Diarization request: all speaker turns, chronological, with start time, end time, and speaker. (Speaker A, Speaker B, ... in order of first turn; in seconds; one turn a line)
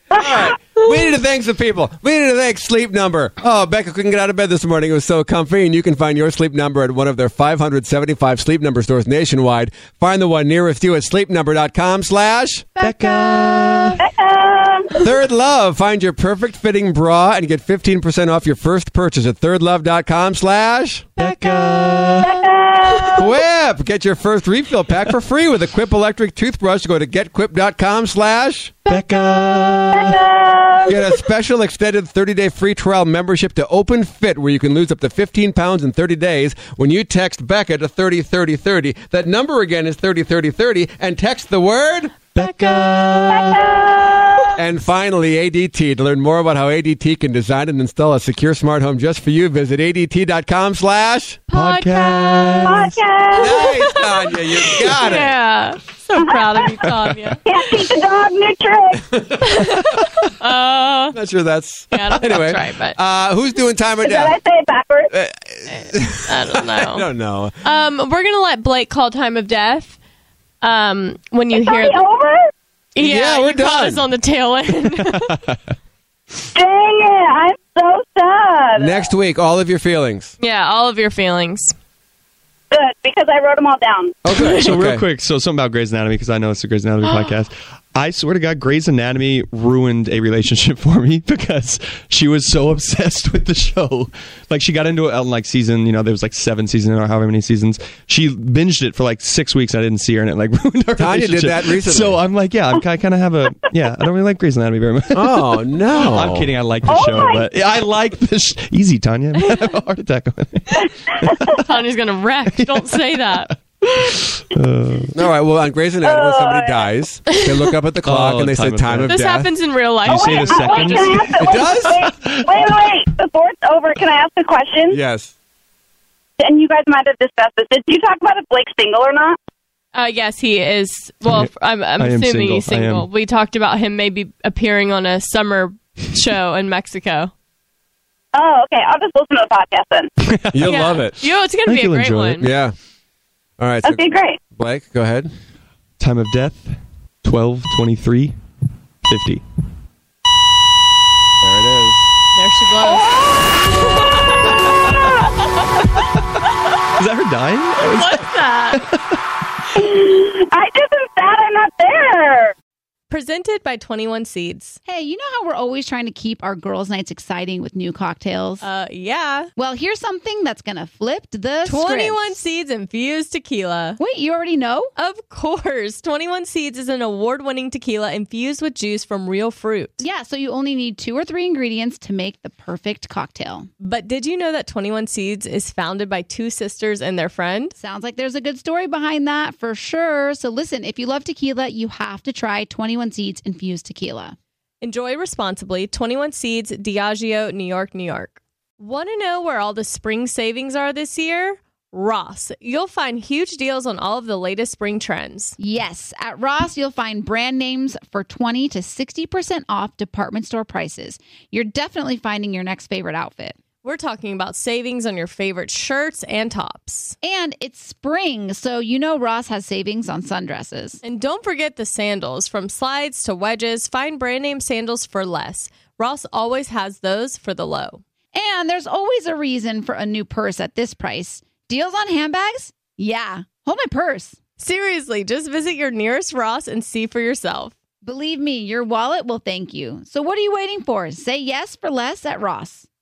Speaker A: 0.1-0.6
Speaker B: 0.1-12.7
Speaker C: 12.8-14.1
Speaker D: 12.8-14.0
Speaker A: 14.0-14.9
Speaker B: 15.0-21.1
Speaker C: 21.2-22.3
Speaker D: 21.2-22.4
Speaker A: 22.2-23.3
Speaker B: 23.2-28.8
Speaker C: 28.9-29.9
Speaker D: 28.9-30.2
Speaker A: 29.9-31.1
Speaker B: 30.9-42.2
Speaker C: 42.4-43.6
Speaker D: 42.4-43.9
Speaker A: 43.3-44.6
Speaker B: 44.6-51.4
Speaker C: 51.5-52.8
Speaker D: 51.5-53.0
Speaker A: 52.6-53.8
Speaker B: 53.4-55.4
Speaker C: 53.6-57.4
Speaker A: 56.1-56.8
Speaker D: 56.8-57.4
Speaker A: 57.5-59.0
Speaker B: 59.1-59.8
Speaker C: 59.4-61.2
Speaker B: 61.1-64.4
Speaker C: 61.9-63.0
Speaker A: 64.0-65.1
Speaker B: 65.1-67.5
Speaker C: 66.2-67.1
Speaker C: 67.6-70.0
Speaker C: 70.6-72.0
Speaker A: 71.5-72.5
Speaker C: 73.0-75.4
Speaker B: 73.0-74.0
Speaker D: 74.9-75.6
Speaker A: 76.5-79.1
Speaker B: 78.8-80.3
Speaker C: 80.4-81.7
Speaker A: 82.7-84.2
Speaker B: 84.2-85.0
Speaker C: 84.4-84.7
Speaker D: 84.4-111.7
Speaker B: 101.0-102.2
Speaker B: 105.1-106.5
Speaker A: 106.9-107.5
Speaker A: 110.7-111.6
Speaker C: 111.5-113.5
Speaker D: 112.5-115.1
Speaker B: 115.1-119.5
Speaker A: 116.0-116.9
Speaker D: 118.0-119.2
Speaker C: 119.1-121.3
Speaker D: 120.0-122.8
Speaker A: 120.1-125.0
Speaker B: 121.4-122.2
Speaker B: 124.9-125.3
Speaker A: 126.4-129.4
Speaker C: 129.9-137.3
Speaker D: 131.2-133.1
Speaker A: 138.3-140.1
Speaker D: 140.2-140.9
Speaker B: 140.5-141.2
Speaker C: 140.7-142.5
Speaker D: 141.7-142.5
Speaker B: 142.4-142.8
Speaker B: 143.6-145.3
Speaker A: 143.8-144.4
Speaker D: 146.0-148.4
Speaker D: 149.1-149.4
Speaker B: 151.4-152.1
Speaker C: 152.3-154.9
Speaker A: 152.8-153.7
Speaker D: 156.9-159.2
Speaker C: 157.8-158.9
Speaker A: 159.8-162.5
Speaker C: 163.1-164.8
Speaker E: 164.9-168.7
Speaker C: 168.6-169.5
Speaker E: 169.6-172.3
Speaker C: 171.7-174.0
Speaker E: 174.0-174.9
Speaker C: 175.0-180.0
Speaker E: 180.0-183.7
Speaker C: 183.8-187.7
Speaker E: 187.8-194.4
Speaker C: 194.8-205.6
Speaker E: 205.6-213.6
Speaker C: 213.8-217.2
Speaker E: 217.2-221.0
Speaker C: 221.0-228.0
Speaker E: 228.3-234.4
Speaker C: 234.6-237.7
Speaker E: 238.0-242.9